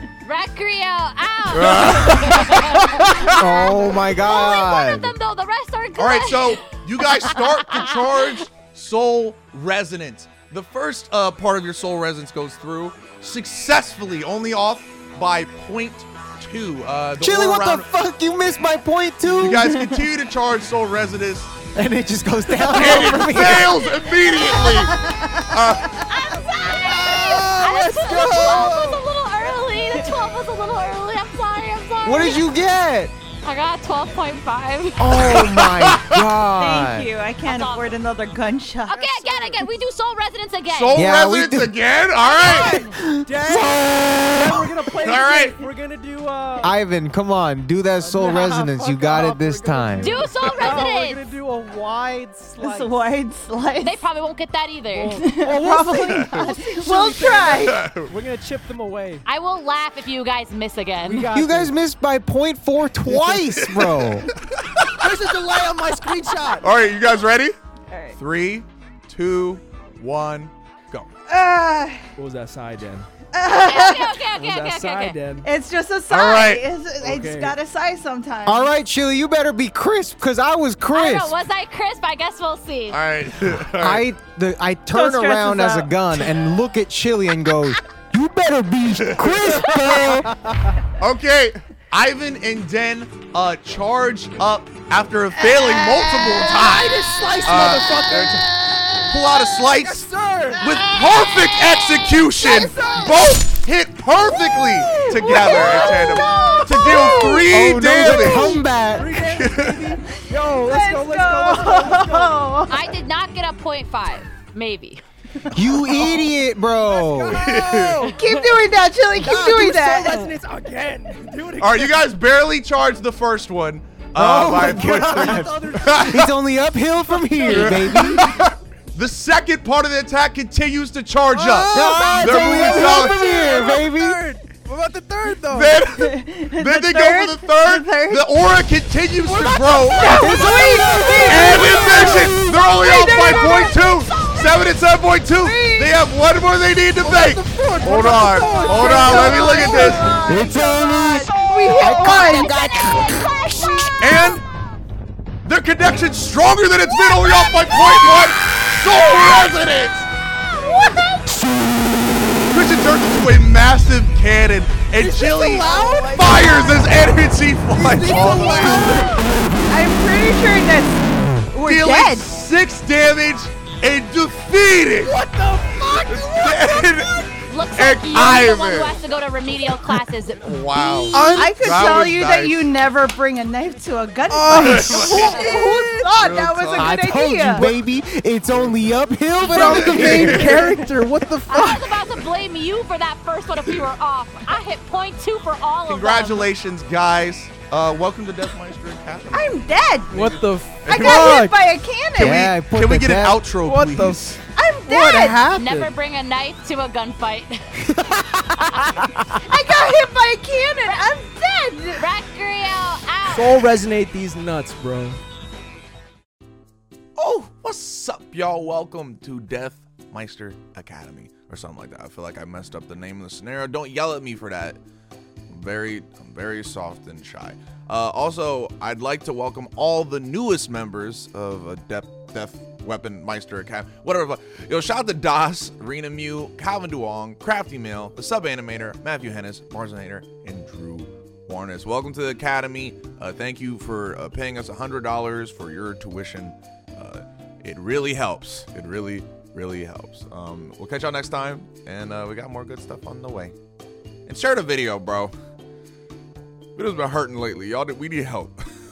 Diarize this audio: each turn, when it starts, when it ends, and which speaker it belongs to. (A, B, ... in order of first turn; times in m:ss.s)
0:00.2-0:08.5 A
0:01.5-0:03.4 B
0:03.4-0:05.1 C
0:05.9-0:17.9 B
0:17.2-0:19.7 C
0:19.2-0:21.6 B
0:19.6-0:20.0 D
0:21.7-0:23.8 C
0:22.6-0:25.0 B
0:24.0-0:26.1 D
0:25.5-0:25.9 B
0:26.0-0:32.5 A
0:26.7-0:27.5 D
0:27.2-0:28.8 C
0:27.2-0:29.0 E
0:29.4-0:30.1 D
0:32.0-0:33.1 C
0:33.4-0:35.2 A
0:35.0-0:37.1 C
0:35.0-0:36.2 B
0:36.6-0:39.6 D
0:37.4-0:37.9 A
0:38.9-0:41.0 A
0:40.6-0:42.8 B
0:40.9-0:41.8 C
0:42.2-0:42.9 A
0:42.4-0:46.7 E
0:42.8-0:43.2 D
0:45.0-0:45.6 B
0:46.6-0:50.2 C
0:48.0-0:53.0 E
0:50.0-0:51.3 A
0:50.4-0:50.7 B
0:52.6-0:54.0 D
0:53.8-0:55.2 A
0:54.9-0:59.2 E
0:55.2-0:57.8 D
0:56.1-0:56.5 B
0:57.6-0:58.1 B
0:59.2-1:01.3 A
1:01.0-1:01.7 E
1:01.3-1:04.3 C
1:03.1-1:05.2 B
1:05.0-1:06.7 E
1:06.6-1:07.6 B
1:07.9-1:08.2 D
1:08.2-1:11.1 B
1:11.3-1:12.0 D
1:12.2-1:13.1 E
1:13.3-1:14.2 D
1:13.5-1:15.2 A
1:14.3-1:15.5 E
1:15.4-1:18.7 D
1:16.1-1:16.6 B
1:17.0-1:17.6 E
1:18.4-1:21.3 C
1:20.9-1:23.0 A
1:22.9-1:24.0 B
1:23.7-1:30.3 C
1:24.9-1:26.0 D
1:29.2-1:29.7 B
1:30.4-1:30.7 E
1:31.0-1:38.4 B
1:35.3-1:37.3 D
1:36.2-1:38.5 E
1:39.1-1:48.6 B
1:39.4-1:40.8 E
1:40.6-1:43.5 D
1:44.8-1:47.5 D
1:45.8-1:46.5 E
1:46.8-1:49.1 C
1:48.8-1:52.4 E
1:49.2-1:49.9 B
1:50.6-1:52.9 D
1:52.7-1:55.0 A
1:55.5-1:57.5 C
1:55.9-1:56.3 E
1:56.9-1:58.2 E
1:57.4-1:58.0 B
1:58.0-2:00.2 D
1:58.0-1:58.5 A
1:59.2-2:02.0 E
2:01.6-2:06.2 B
2:04.2-2:05.5 C
2:04.2-2:06.3 E
2:06.1-2:08.3 C
2:07.4-2:13.2 B
2:11.3-2:15.8 E
2:11.4-2:14.2 C
2:11.8-2:12.2 A
2:15.5-2:20.4 B
2:15.9-2:18.3 D
2:19.2-2:21.8 E
2:20.0-2:21.1 D
2:20.2-2:22.5 C
2:20.2-2:24.7 A
2:21.3-2:30.1 B
2:22.0-2:22.3 D
2:22.8-2:23.7 D
2:25.3-2:26.0 D
2:27.0-2:30.3 E
2:28.7-2:32.5 D
2:30.2-2:33.5 C
2:31.3-2:32.0 E
2:31.8-2:34.5 A
2:33.4-2:34.3 D
2:34.0-2:34.4 B
2:35.4-2:40.1 B
2:36.8-2:39.6 A
2:40.4-2:41.0 A
2:40.5-2:41.3 D
2:42.5-2:49.1 B
2:45.0-2:46.8 E
2:45.6-2:46.8 D
2:47.7-2:49.4 E
2:48.2-2:49.3 A
2:48.2-2:49.0 D
2:49.7-2:52.3 D
2:51.6-2:55.2 B
2:55.0-2:56.8 E
2:55.8-2:59.0 B
2:57.5-3:01.5 A
3:00.4-3:02.7 B
3:01.1-3:01.7 E
3:01.3-3:07.6 D
3:04.3-3:06.2 E
3:04.6-3:05.4 B
3:05.1-3:05.7 A
3:06.1-3:07.0 B
3:06.8-3:10.7 C
3:08.5-3:08.8 B
3:09.5-3:12.0 E
3:09.5-3:10.6 B
3:11.5-3:16.5 A
3:15.9-3:21.3 B
3:19.3-3:20.3 D
3:20.1-3:21.6 E
3:20.9-3:22.5 D
3:22.1-3:24.4 B
3:22.2-3:23.4 C
3:23.6-3:25.9 E
3:24.5-3:25.4 D
3:25.5-3:27.9 A
3:27.9-3:28.6 C
3:28.5-3:29.4 A
3:29.4-3:32.1 D
3:31.9-3:33.6 A
3:33.3-3:35.2 E
3:37.2-3:44.8 B
3:45.5-4:13.5 B
4:14.3-4:15.3 B
4:16.7-4:18.6 B